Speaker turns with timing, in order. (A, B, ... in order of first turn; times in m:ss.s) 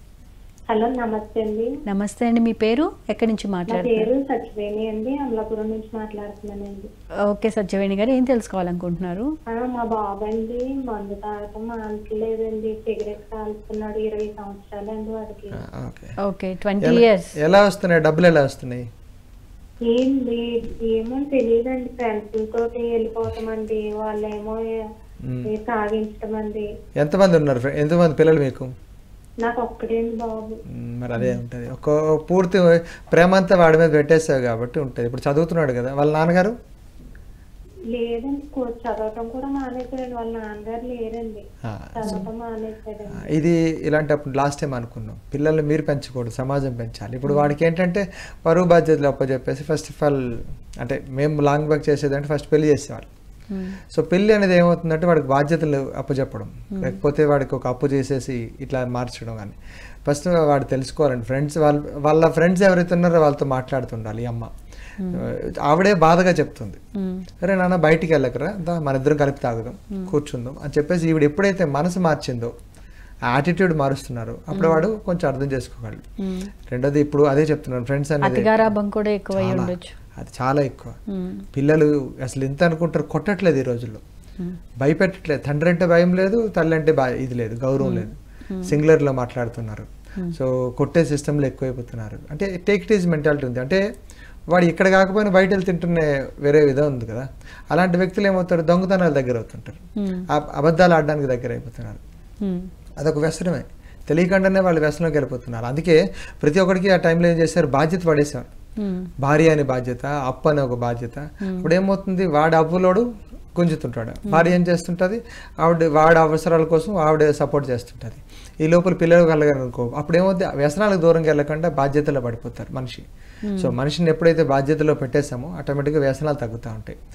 0:00.7-0:01.7 A
0:01.8-0:04.1 B
0:03.7-0:06.9 A
0:07.3-0:09.3 B
0:09.5-0:15.6 A
0:15.5-0:16.1 C
0:16.2-0:17.3 B
0:16.8-0:18.8 C
0:19.9-0:24.6 A
0:25.2-0:25.5 C
0:25.5-0:26.6 A
0:27.0-0:28.7 C
0:29.4-0:30.5 A
0:30.7-0:36.5 C
0:37.9-0:41.4 A
0:41.6-0:42.2 C
0:41.9-0:43.2 A
0:43.1-0:50.2 C
0:47.3-0:47.5 B
0:50.8-0:53.1 C
0:53.5-0:53.8 B
0:53.9-1:04.5 C
0:56.7-0:57.0 B
1:05.0-1:05.2 B
1:05.1-1:06.8 C
1:07.0-1:07.2 B
1:07.4-1:12.5 C
1:13.3-1:16.0 C
1:14.5-1:14.8 B
1:16.2-1:16.5 B
1:16.7-1:18.7 C
1:18.2-1:19.9 B
1:19.3-1:20.9 C
1:21.1-1:21.4 B
1:21.5-1:24.0 C
1:24.8-1:28.1 C
1:27.8-1:28.7 B
1:28.6-1:33.8 C
1:34.5-1:39.8 C
1:40.0-1:40.3 B
1:40.3-1:42.0 C
1:42.4-1:42.7 B
1:43.0-1:48.5 C
1:48.8-1:49.1 B
1:49.2-2:03.0 C
1:51.4-1:51.7 B
1:54.3-1:54.5 B
2:03.4-2:03.7 B
2:03.6-2:07.0 C